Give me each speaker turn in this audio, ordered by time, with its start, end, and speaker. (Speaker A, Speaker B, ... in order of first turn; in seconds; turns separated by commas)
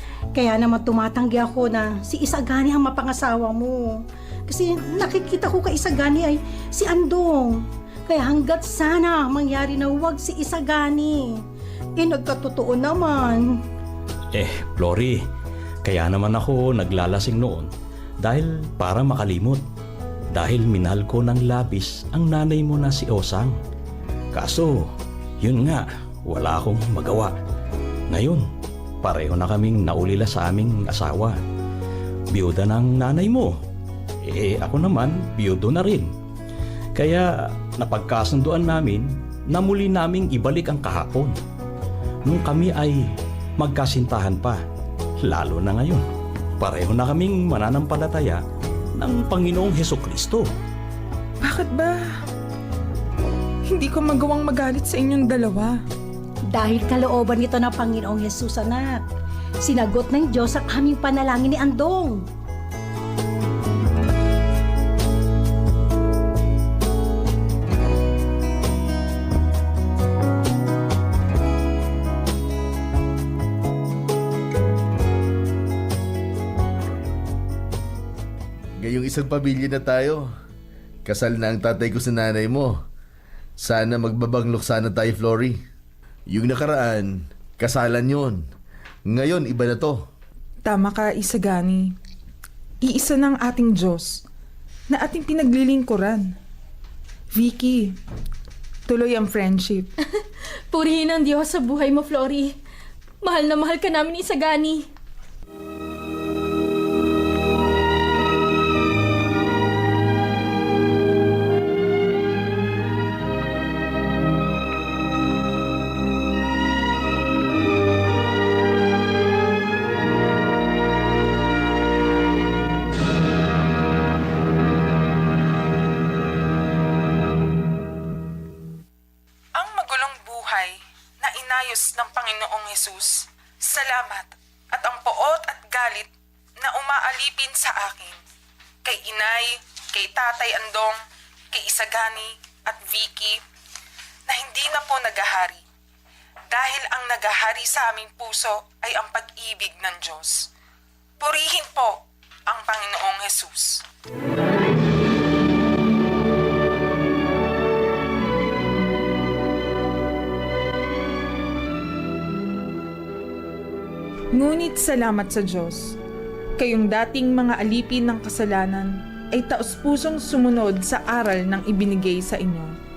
Speaker A: 0.3-11.4, Speaker A: 12.0-13.6, Speaker B: 14.3-15.2, Speaker B: 15.8-17.7, Speaker B: 18.2-19.6, Speaker B: 20.3-23.6, Speaker B: 24.3-24.9, Speaker B: 25.4-27.3, Speaker B: 28.1-28.4, Speaker B: 29.0-31.4, Speaker B: 32.3-33.5, Speaker B: 34.2-36.1, Speaker B: 37.0-41.4, Speaker B: 42.3-43.1, Speaker B: 43.6-44.6, Speaker B: 45.3-46.0, Speaker B: 46.6-48.4, Speaker B: 49.0-50.5, Speaker C: 51.4-52.2, Speaker C: 53.7-55.8, Speaker A: 56.5-59.0, Speaker A: 59.6-62.2, Speaker D: 78.8-80.3, Speaker D: 81.0-82.8, Speaker D: 83.6-85.6, Speaker D: 86.3-88.5, Speaker D: 89.1-90.1, Speaker C: 90.7-92.0, Speaker C: 92.8-94.2, Speaker C: 94.9-96.3, Speaker C: 97.3-98.0, Speaker C: 98.9-99.9, Speaker E: 100.8-102.5, Speaker E: 104.0-104.8, Speaker F: 129.6-136.1, Speaker F: 136.6-138.2, Speaker F: 138.8-141.0, Speaker F: 141.5-143.4, Speaker F: 144.3-145.6, Speaker F: 146.5-150.5, Speaker F: 151.2-153.8, Speaker C: 164.3-166.0, Speaker C: 166.6-172.8